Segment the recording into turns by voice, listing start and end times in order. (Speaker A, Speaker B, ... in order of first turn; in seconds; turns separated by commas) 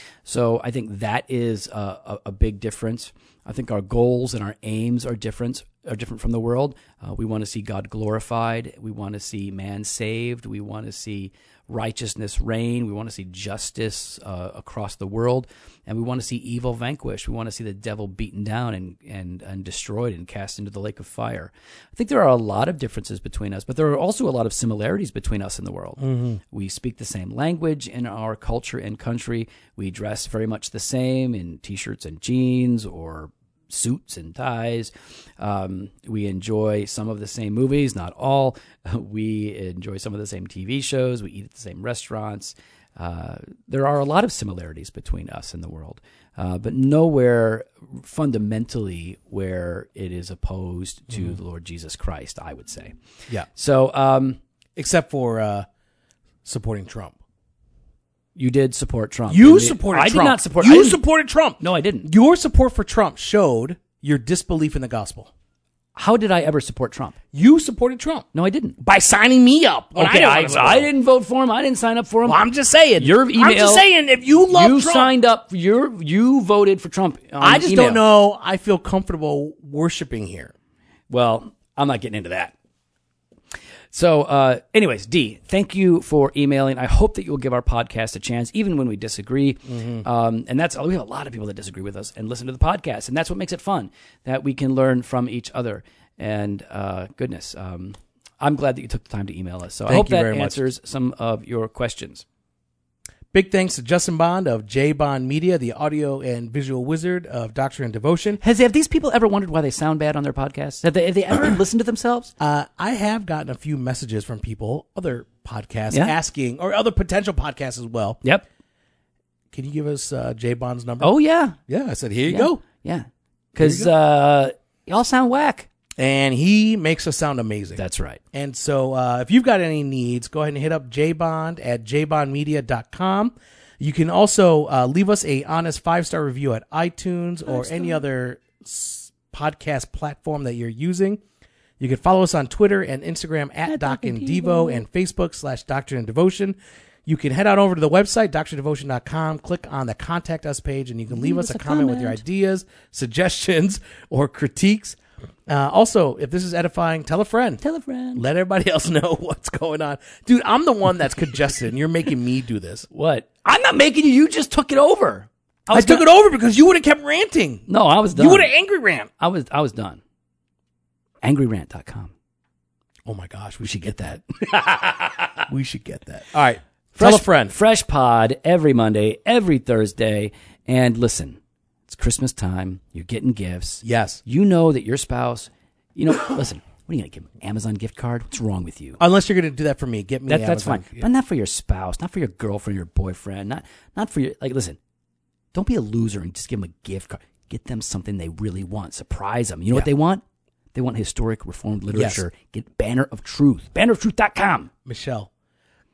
Speaker A: 0.2-53.0, Speaker B: 26.0-26.4, Speaker A: 53.5-54.4, Speaker B: 54.8-55.6, Speaker B: 56.4-57.1, Speaker A: 58.4-61.0, Speaker B: 59.3-65.3, Speaker A: 61.6-62.1, Speaker A: 65.9-67.2, Speaker B: 67.3-68.2, Speaker A: 68.3-68.8, Speaker B: 68.8-70.9, Speaker A: 70.0-72.4, Speaker B: 72.2-75.1, Speaker A: 73.0-73.8, Speaker A: 74.5-78.0, Speaker B: 77.4-80.5, Speaker A: 81.1-82.5, Speaker A: 83.9-102.2, Speaker B: 89.7-90.0, Speaker B: 99.9-100.6, Speaker B: 103.3-108.4, Speaker A: 108.4-112.3, Speaker B: 112.4-118.2, Speaker B: 119.5-121.1, Speaker A: 121.0-121.6, Speaker B: 121.7-122.6, Speaker A: 122.3-125.7, Speaker B: 123.6-123.9, Speaker B: 126.0-127.8, Speaker A: 127.8-128.2, Speaker B: 128.3-141.2, Speaker A: 137.4-138.0, Speaker B: 141.8-157.6, Speaker A: 143.7-144.8, Speaker A: 151.1-152.2, Speaker A: 157.6-158.2, Speaker B: 158.2-162.9, Speaker A: 162.9-166.0, Speaker B: 165.7-169.1, Speaker A: 167.7-168.5, Speaker A: 169.2-170.0, Speaker A: 171.2-172.1, Speaker B: 173.1-174.4, Speaker A: 174.4-175.3, Speaker B: 175.5-177.6, Speaker A: 176.9-189.0, Speaker B: 183.8-184.2, Speaker B: 189.0-191.1, Speaker A: 190.3-194.8, Speaker A: 195.5-200.2, Speaker A: 200.7-204.7, Speaker B: 201.9-202.2, Speaker B: 204.8-205.3